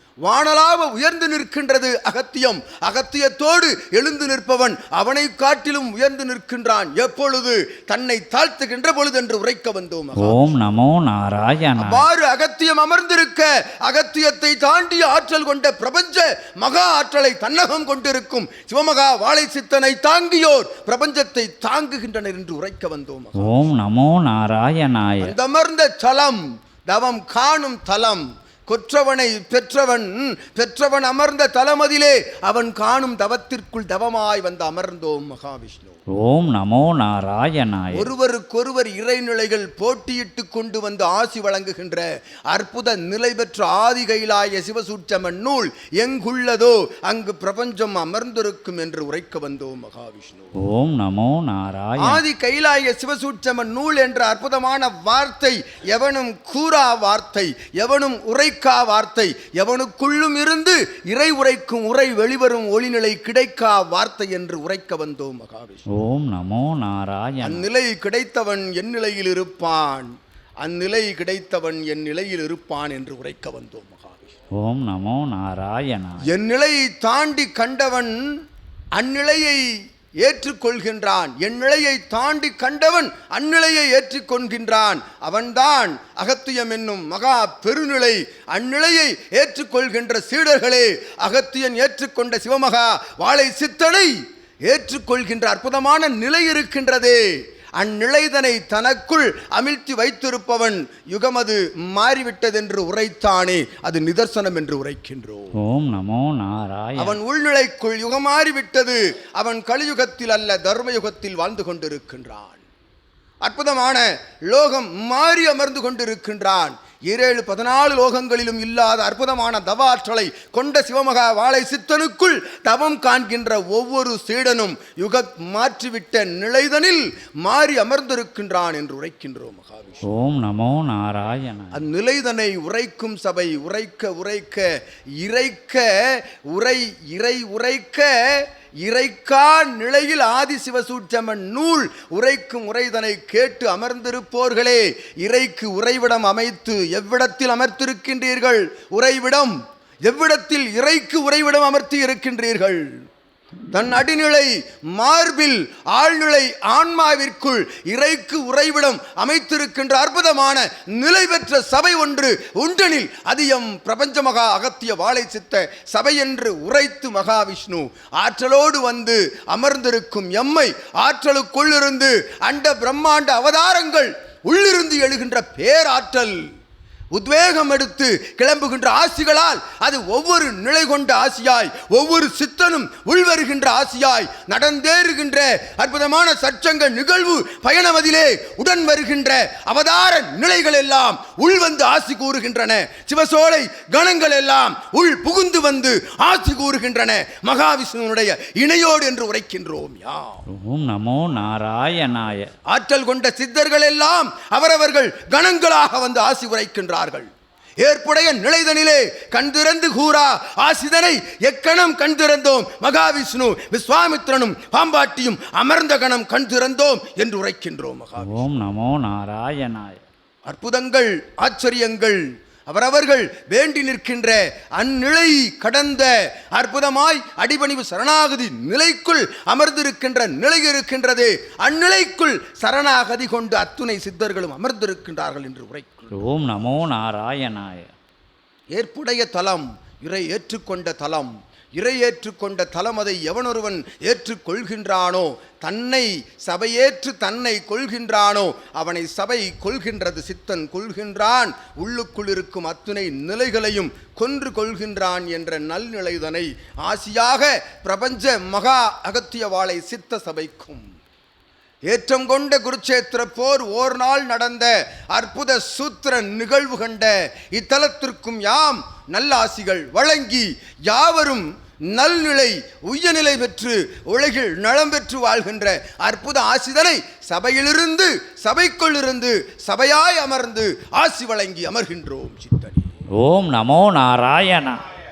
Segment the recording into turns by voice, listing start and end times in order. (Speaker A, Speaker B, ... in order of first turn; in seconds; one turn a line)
Speaker A: 0.2-10.5
Speaker B: 10.2-12.0
Speaker A: 11.8-23.6
Speaker B: 23.4-25.3
Speaker A: 25.2-36.0
Speaker B: 36.2-38.1
Speaker A: 37.9-50.5
Speaker B: 50.6-52.2
Speaker A: 52.0-65.8
Speaker B: 65.9-67.6
Speaker A: 67.4-74.3
Speaker B: 74.6-76.2
Speaker A: 76.3-78.2
Speaker A: 79.0-79.7
Speaker A: 80.2-94.1
Speaker A: 94.7-105.5
Speaker B: 105.6-107.2
Speaker A: 107.0-112.6
Speaker A: 113.4-130.1
Speaker B: 130.1-131.8
Speaker A: 131.7-134.7
Speaker A: 135.2-152.8
Speaker A: 153.7-176.4
Speaker A: 177.1-200.4
Speaker B: 200.5-202.5
Speaker A: 202.7-207.3
Speaker A: 207.8-218.5
Speaker B: 218.2-220.0
Speaker A: 220.5-236.1
Speaker B: 236.1-237.9
Speaker A: 238.8-260.9
Speaker A: 261.9-282.9
Speaker B: 283.2-284.8